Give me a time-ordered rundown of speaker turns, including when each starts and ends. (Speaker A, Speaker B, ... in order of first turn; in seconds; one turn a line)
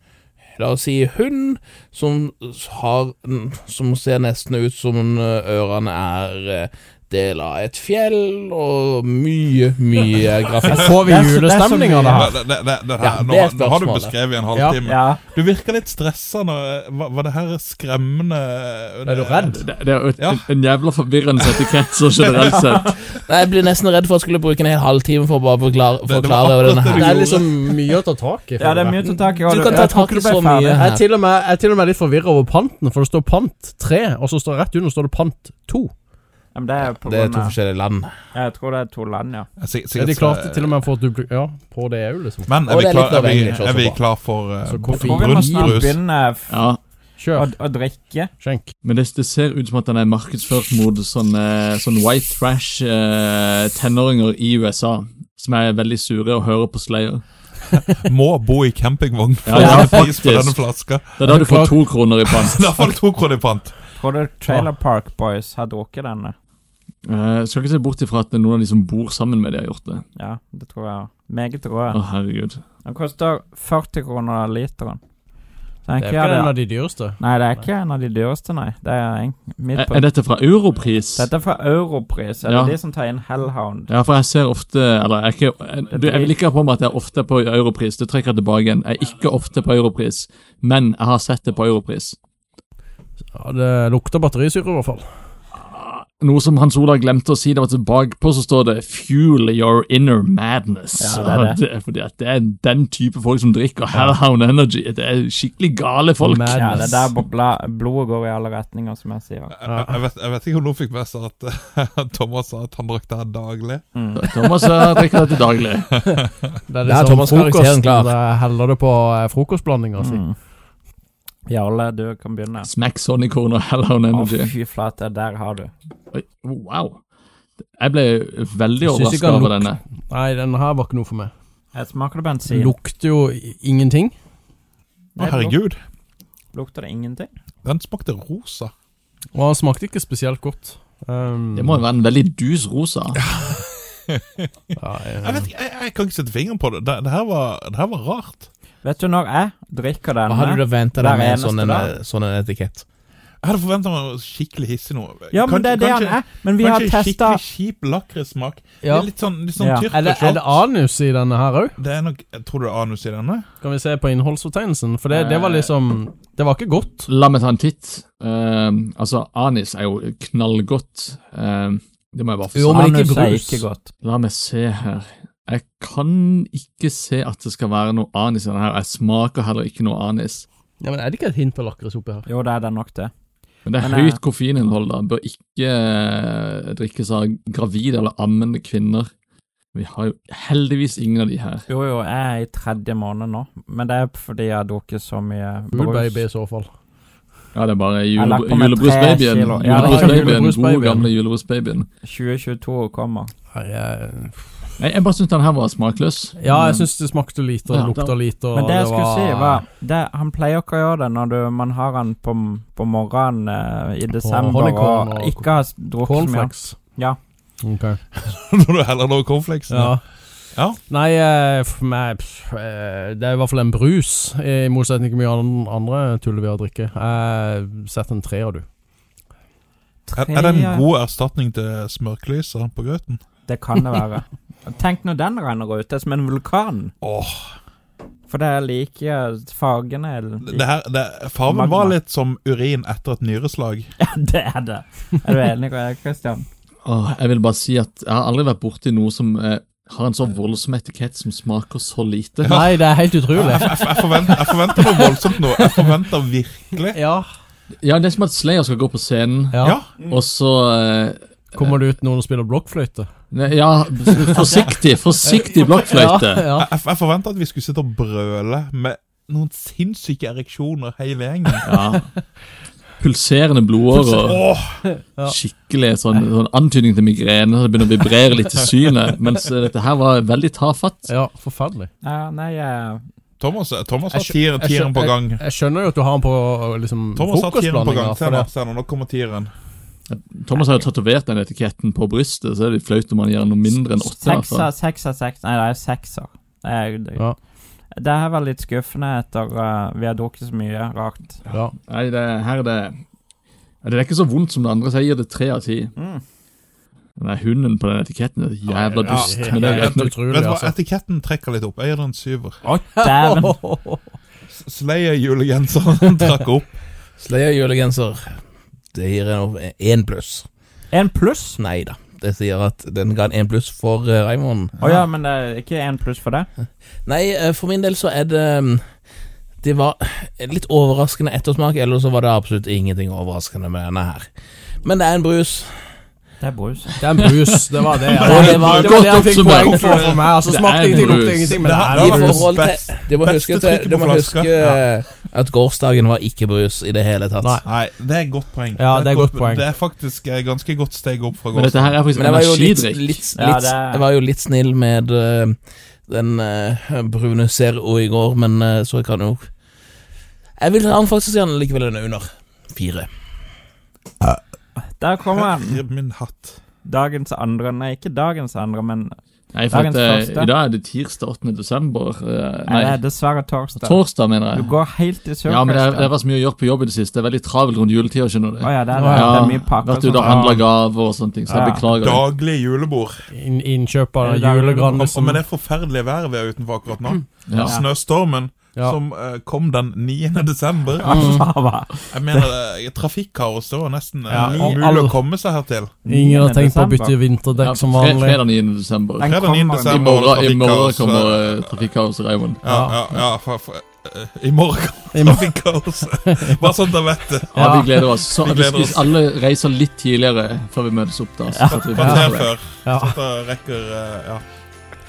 Speaker A: 0.6-11.0
Speaker B: 10.8-12.3
Speaker C: 11.0-12.3
Speaker D: 12.2-19.6
Speaker A: 13.0-14.2
Speaker C: 14.8-15.2
Speaker B: 19.1-19.6
Speaker E: 19.5-22.9
Speaker D: 20.2-20.4
Speaker D: 21.4-21.7
Speaker D: 22.2-22.9
Speaker A: 23.3-27.1
Speaker D: 26.0-27.9
Speaker B: 26.8-29.1
Speaker C: 28.6-30.9
Speaker A: 29.2-31.0
Speaker B: 29.6-30.0
Speaker B: 30.7-35.9
Speaker C: 36.5-37.6
Speaker A: 36.8-38.1
Speaker C: 38.3-39.5
Speaker D: 39.6-40.8
Speaker B: 39.9-42.5
Speaker D: 42.5-46.0
Speaker A: 42.6-44.0
Speaker B: 44.6-45.8
Speaker C: 44.9-46.6
Speaker E: 46.5-46.8
Speaker B: 47.2-47.5
Speaker C: 47.3-48.3
Speaker B: 48.3-48.7
Speaker E: 48.8-57.2
Speaker D: 57.8-61.2
Speaker E: 59.5-62.8
Speaker B: 61.2-61.8
Speaker D: 62.3-63.7
Speaker C: 64.0-66.3
Speaker E: 67.0-70.0
Speaker C: 70.1-72.0
Speaker E: 71.9-72.6
Speaker C: 72.8-75.0
Speaker C: 75.8-76.6
Speaker B: 76.0-77.6
Speaker C: 77.2-80.0
Speaker E: 79.7-81.3
Speaker C: 81.2-83.9
Speaker E: 82.5-82.8
Speaker E: 83.9-92.2
Speaker C: 85.9-86.3
Speaker B: 93.3-95.0
Speaker E: 95.5-106.9
Speaker C: 101.0-101.6
Speaker B: 106.2-107.1
Speaker C: 106.5-109.5
Speaker D: 109.5-113.8
Speaker B: 109.7-110.0
Speaker C: 113.9-114.4
Speaker E: 114.2-115.9
Speaker D: 116.1-116.4
Speaker B: 116.7-120.2
Speaker A: 116.8-118.1
Speaker C: 120.0-120.3
Speaker C: 121.5-122.7
Speaker E: 122.6-124.5
Speaker C: 124.1-125.7
Speaker E: 126.1-127.0
Speaker E: 127.8-129.8
Speaker B: 128.8-131.3
Speaker C: 131.7-132.8
Speaker B: 132.4-134.1
Speaker C: 135.2-135.6
Speaker D: 135.2-135.8
Speaker C: 136.5-137.3
Speaker D: 137.6-138.7
Speaker B: 139.3-141.8
Speaker E: 141.5-143.2
Speaker D: 143.2-144.5
Speaker B: 144.8-145.5
Speaker D: 145.2-148.5
Speaker C: 148.8-151.9
Speaker A: 150.2-152.8
Speaker D: 153.4-160.6
Speaker C: 155.3-157.4
Speaker B: 158.8-159.2
Speaker C: 159.6-159.9
Speaker B: 159.9-161.8
Speaker D: 161.8-163.4
Speaker B: 163.6-167.1
Speaker E: 165.1-165.7
Speaker E: 167.1-173.2
Speaker A: 172.5-173.6
Speaker C: 172.7-173.9
Speaker E: 174.0-180.4
Speaker B: 180.8-182.3
Speaker C: 182.3-183.1
Speaker E: 183.7-189.1
Speaker C: 183.8-184.2
Speaker E: 189.7-191.6
Speaker C: 191.7-196.2
Speaker B: 195.7-196.7
Speaker E: 197.5-201.9
Speaker C: 198.2-200.3
Speaker B: 199.7-201.1
Speaker C: 202.0-203.3
Speaker B: 203.5-204.4
Speaker E: 204.8-206.9
Speaker B: 206.4-209.6
Speaker E: 207.7-208.2
Speaker C: 208.5-217.2
Speaker B: 214.2-217.0
Speaker B: 217.6-218.0
Speaker D: 218.2-219.9
Speaker B: 219.7-220.0
Speaker D: 220.5-220.8
Speaker B: 220.9-228.6
Speaker C: 230.1-230.9
Speaker D: 230.2-233.2
Speaker C: 233.4-236.9
Speaker D: 237.0-237.6
Speaker C: 238.3-240.7
Speaker D: 240.4-243.9
Speaker C: 241.5-242.0
Speaker C: 244.0-246.4
Speaker E: 246.8-252.7
Speaker D: 252.4-252.8
Speaker B: 252.4-255.2
Speaker D: 253.3-257.0
Speaker B: 256.8-257.3
Speaker E: 257.8-261.8
Speaker B: 259.5-259.8
Speaker D: 259.6-259.9
Speaker B: 261.5-263.1
Speaker E: 263.3-266.5
Speaker B: 264.1-264.7
Speaker B: 265.3-266.7
Speaker D: 266.5-271.7
Speaker E: 271.6-272.1
Speaker E: 273.0-274.4
Speaker D: 273.9-274.8
Speaker B: 274.9-275.4
Speaker E: 275.2-281.1
Speaker B: 281.1-281.9
Speaker C: 282.0-283.0
Speaker D: 283.4-285.4
Speaker B: 284.1-288.5
Speaker D: 287.1-289.5
Speaker E: 290.1-294.7
Speaker C: 293.8-297.3
Speaker C: 297.9-301.4
Speaker B: 301.5-301.8
Speaker E: 301.9-303.0
Speaker E: 303.8-305.9
Speaker C: 305.9-306.2
Speaker E: 307.2-310.1
Speaker D: 308.7-312.6
Speaker B: 309.0-310.7
Speaker B: 312.7-314.0
Speaker C: 312.7-313.6
Speaker D: 314.5-316.8
Speaker A: 317.2-318.4
Speaker A: 318.9-320.4
Speaker C: 320.9-321.6
Speaker A: 321.6-324.7
Speaker C: 324.8-326.5
Speaker A: 327.1-328.8
Speaker A: 329.6-334.3
Speaker A: 334.8-335.8
Speaker C: 336.4-337.1
Speaker B: 337.0-342.5
Speaker D: 338.1-340.3
Speaker E: 338.1-341.6
Speaker D: 341.6-344.8
Speaker A: 341.9-347.6
Speaker D: 347.6-352.0
Speaker B: 348.7-349.6
Speaker E: 351.5-353.2
Speaker A: 352.1-359.5
Speaker C: 353.4-354.0
Speaker A: 360.6-363.1
Speaker C: 364.8-365.8
Speaker D: 365.3-366.6
Speaker C: 366.8-369.1
Speaker E: 369.5-373.0
Speaker C: 369.7-370.5
Speaker C: 372.7-376.1
Speaker E: 373.8-374.7
Speaker E: 375.4-382.2
Speaker C: 378.6-380.4
Speaker B: 378.9-379.5
Speaker D: 380.2-380.6
Speaker C: 381.5-381.8
Speaker D: 382.0-383.2
Speaker B: 383.3-385.4
Speaker C: 384.2-385.1
Speaker D: 385.0-391.2
Speaker E: 387.5-387.8
Speaker C: 387.6-387.9
Speaker B: 391.0-391.5
Speaker C: 391.0-392.5
Speaker D: 392.1-396.0
Speaker B: 394.3-395.2
Speaker C: 394.4-394.7
Speaker C: 396.0-397.1
Speaker B: 396.0-398.4
Speaker E: 397.6-402.6
Speaker C: 399.2-400.1
Speaker D: 399.2-401.5
Speaker B: 402.6-403.2
Speaker D: 402.6-409.1
Speaker B: 405.1-406.8
Speaker E: 407.5-412.5
Speaker B: 407.5-407.9
Speaker C: 411.5-411.9
Speaker D: 411.7-414.4
Speaker B: 412.0-413.2